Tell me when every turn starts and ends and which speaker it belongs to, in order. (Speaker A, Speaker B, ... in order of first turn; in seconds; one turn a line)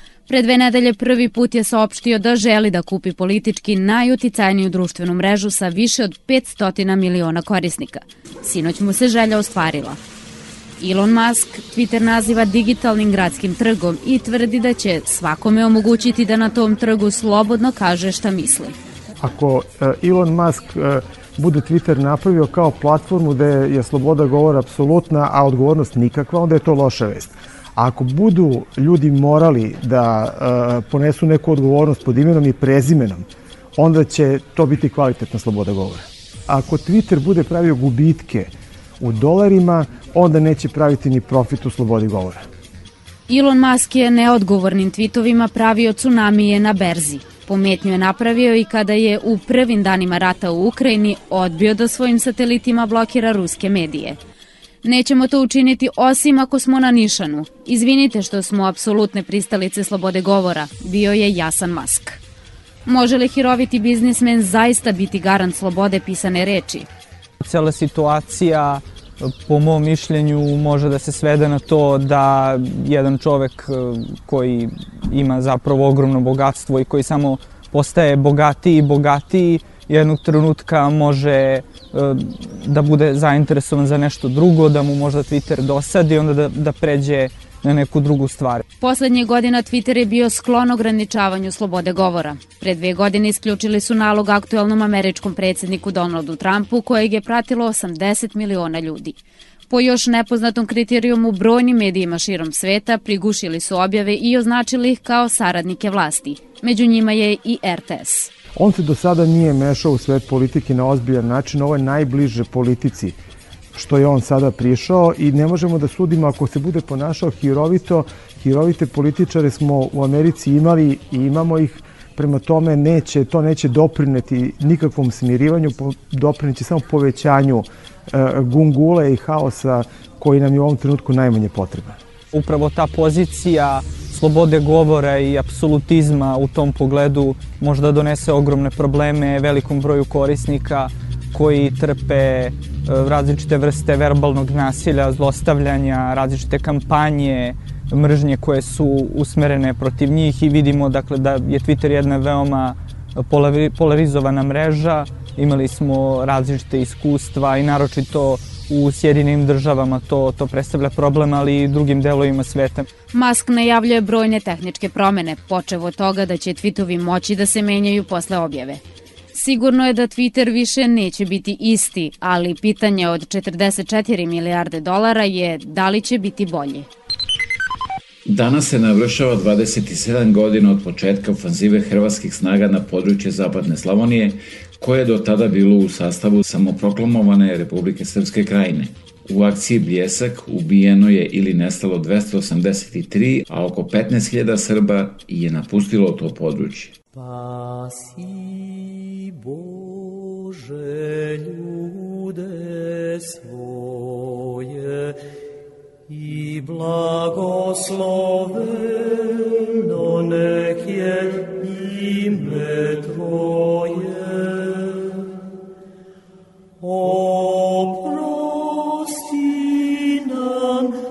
Speaker A: 0.3-10.0
Speaker A: 10.8-18.8
Speaker B: 19.2-42.5
Speaker A: 43.3-54.2
Speaker A: 54.8-62.2
Speaker A: 62.9-66.9
Speaker C: 67.4-88.7
Speaker A: 88.8-99.2
Speaker A: 99.7-108.3
Speaker B: 108.6-113.2
Speaker B: 113.7-132.0
Speaker C: 132.3-162.9
Speaker A: 163.1-168.8
Speaker A: 169.3-176.9
Speaker D: 178.3-196.9